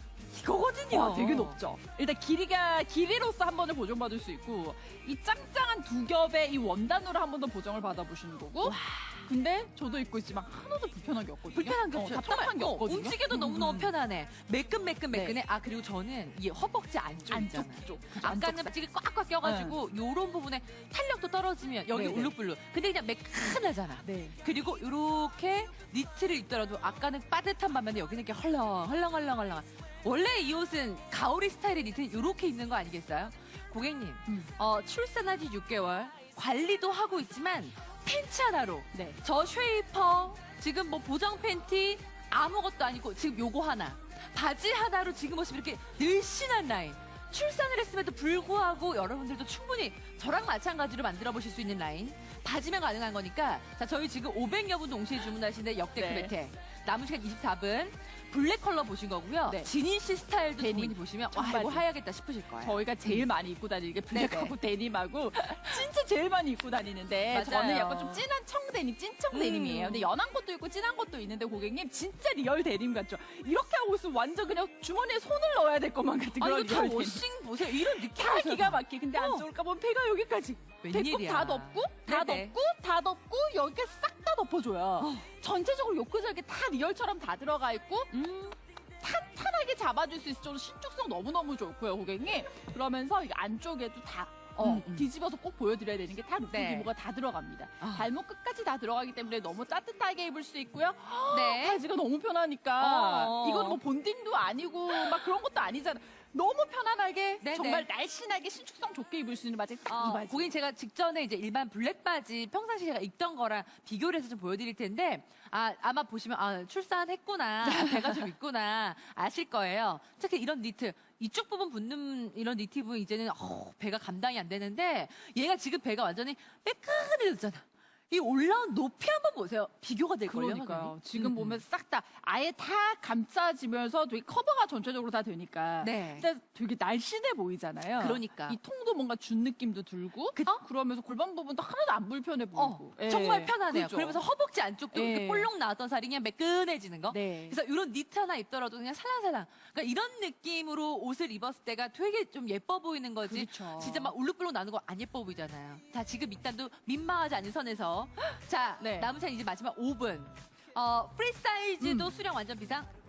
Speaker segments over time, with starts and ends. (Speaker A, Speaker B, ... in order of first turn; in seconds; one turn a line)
Speaker A: 0.3-1.6
Speaker B: 0.8-13.9
Speaker A: 8.6-9.3
Speaker A: 11.5-63.2
Speaker B: 15.1-15.4
Speaker B: 17.3-18.7
Speaker B: 19.4-19.8
Speaker B: 21.9-22.3
Speaker B: 24.0-24.4
Speaker B: 38.9-39.2
Speaker B: 56.0-56.3
Speaker B: 60.6-61.9
Speaker B: 62.6-88.1
Speaker A: 64.1-64.5
Speaker A: 65.4-65.7
Speaker A: 67.3-68.2
Speaker A: 69.3-70.1
Speaker A: 76.4-79.5
Speaker A: 80.8-82.5
Speaker A: 85.0-85.3
Speaker A: 88.1-88.6
Speaker B: 89.0-110.5
Speaker A: 94.6-95.1
Speaker A: 96.5-96.9
Speaker A: 97.8-98.1
Speaker A: 101.3-101.8
Speaker A: 102.8-103.8
Speaker A: 107.4-107.9
Speaker A: 109.9-131.6
Speaker B: 117.7-118.2
Speaker B: 130.3-144.2
Speaker A: 135.8-136.3
Speaker A: 138.0-138.6
Speaker A: 140.3-140.6
Speaker A: 142.6-162.9
Speaker B: 144.9-145.5
Speaker B: 147.1-147.6
Speaker B: 153.2-154.1
Speaker B: 158.8-159.1
Speaker B: 161.8-162.1